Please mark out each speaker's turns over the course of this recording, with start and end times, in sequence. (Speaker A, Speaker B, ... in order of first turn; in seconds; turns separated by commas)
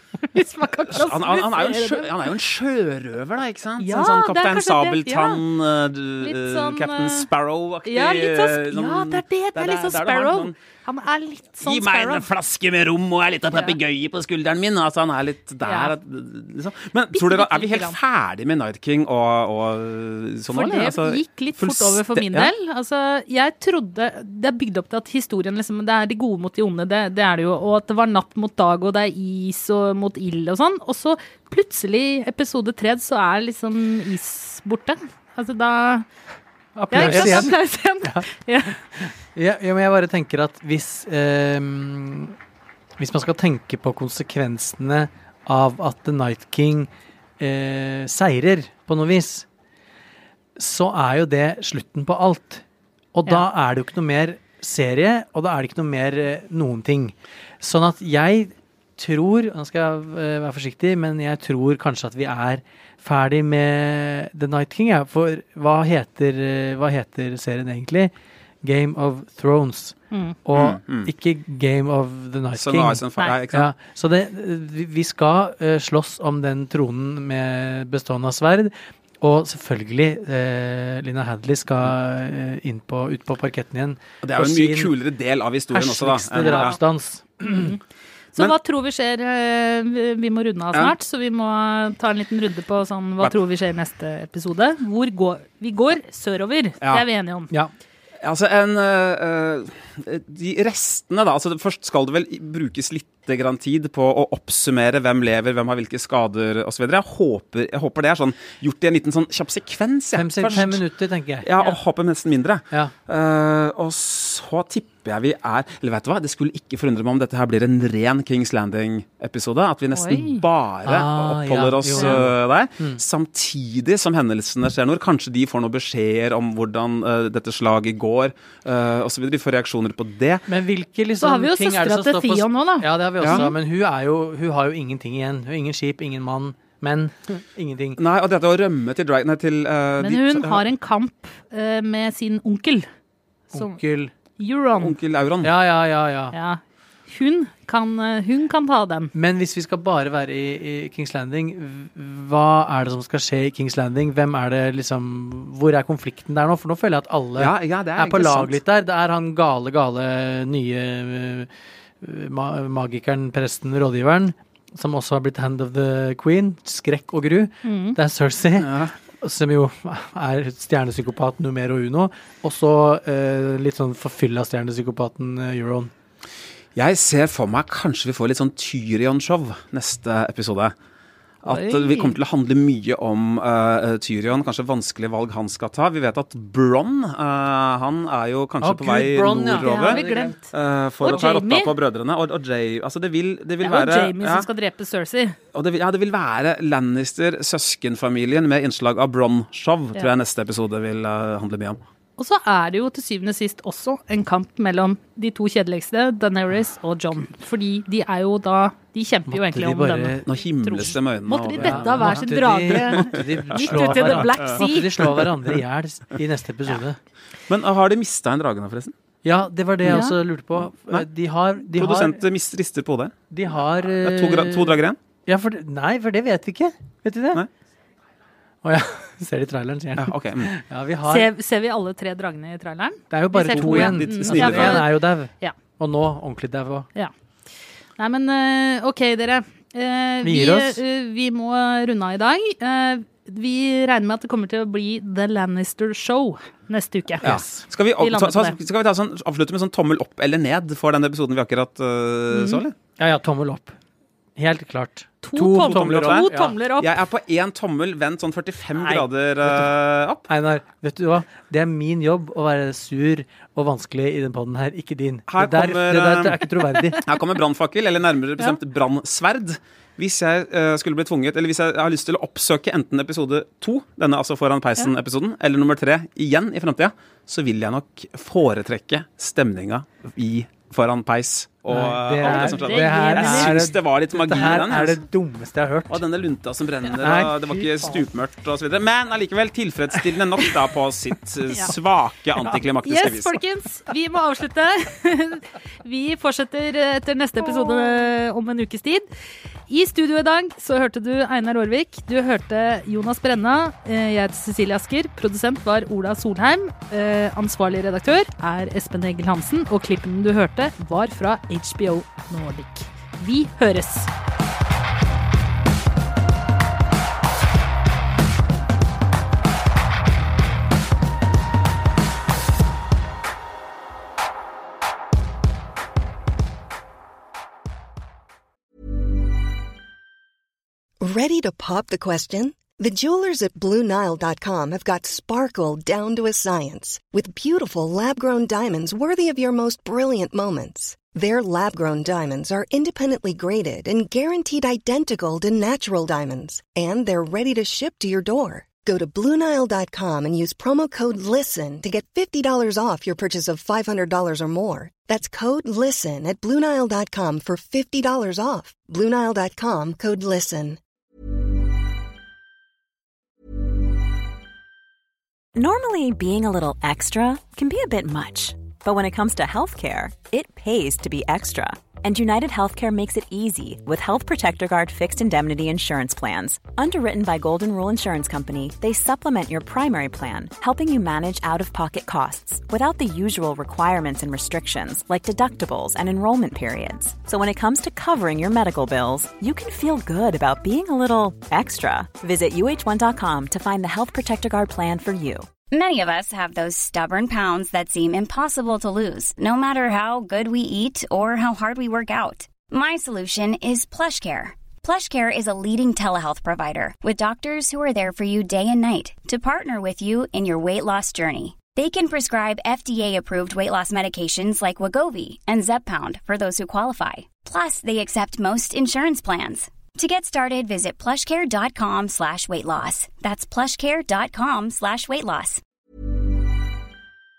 Speaker A: 0.3-2.1, Speaker B: 0.9-10.6, Speaker A: 3.8-5.4, Speaker A: 6.2-7.3, Speaker A: 7.8-12.3, Speaker B: 11.6-22.5, Speaker A: 13.5-13.8, Speaker A: 15.6-15.9, Speaker A: 17.1-18.0, Speaker A: 20.5-36.1, Speaker C: 36.8-38.2, Speaker A: 36.9-38.8, Speaker B: 36.9-37.5, Speaker C: 38.9-42.4, Speaker C: 43.0-49.5, Speaker C: 50.6-68.1, Speaker C: 68.6-84.9, Speaker A: 70.1-70.4, Speaker B: 70.5-71.1, Speaker B: 72.6-73.7, Speaker B: 84.2-86.8, Speaker C: 85.7-87.7, Speaker A: 86.5-86.8, Speaker A: 87.4-87.8, Speaker A: 88.3-97.5, Speaker B: 96.8-97.1, Speaker B: 98.2-110.8, Speaker C: 110.1-111.5, Speaker B: 111.4-130.5, Speaker A: 119.9-120.4, Speaker C: 120.8-123.0, Speaker C: 130.5-138.0, Speaker A: 131.2-133.5, Speaker B: 138.0-140.6, Speaker A: 140.0-142.9, Speaker C: 143.5-144.1, Speaker A: 143.5-143.8, Speaker A: 144.4-145.0, Speaker B: 144.8-145.5, Speaker C: 145.4-146.4, Speaker A: 146.3-149.1, Speaker C: 149.1-161.5, Speaker B: 157.4-158.6, Speaker C: 162.0-175.9, Speaker A: 167.6-168.0, Speaker B: 168.6-168.9, Speaker B: 176.8-180.7, Speaker B: 181.4-194.5, Speaker A: 181.5-182.1, Speaker C: 188.6-190.4, Speaker A: 189.6-190.4, Speaker A: 191.0-191.7, Speaker A: 193.6-195.4, Speaker B: 195.5-201.8, Speaker A: 202.2-215.2, Speaker C: 209.3-210.2, Speaker B: 210.2-215.3, Speaker C: 211.6-217.0, Speaker B: 217.5-218.9, Speaker C: 219.2-222.2, Speaker A: 219.9-220.1, Speaker B: 220.8-221.1, Speaker B: 221.7-223.1, Speaker C: 223.3-227.4, Speaker B: 224.0-225.0, Speaker C: 228.6-231.3, Speaker B: 230.0-230.5, Speaker A: 231.1-235.6, Speaker C: 233.1-236.9, Speaker B: 233.5-234.9, Speaker A: 238.0-247.3, Speaker C: 240.2-240.8, Speaker C: 247.2-247.5, Speaker B: 247.2-252.7, Speaker A: 248.0-248.6, Speaker A: 252.3-252.6, Speaker C: 253.0-253.8, Speaker C: 254.4-256.5, Speaker A: 255.2-256.9, Speaker B: 255.6-260.3, Speaker C: 258.8-259.8, Speaker C: 260.3-267.0, Speaker B: 265.3-266.5, Speaker B: 267.0-285.0, Speaker C: 281.7-286.0, Speaker A: 282.2-283.6, Speaker B: 285.9-293.4, Speaker C: 286.9-288.0, Speaker A: 292.9-299.1, Speaker A: 299.7-314.1, Speaker D: 331.0-360.8, Speaker E: 365.6-395.5, Speaker F: 395.7-425.6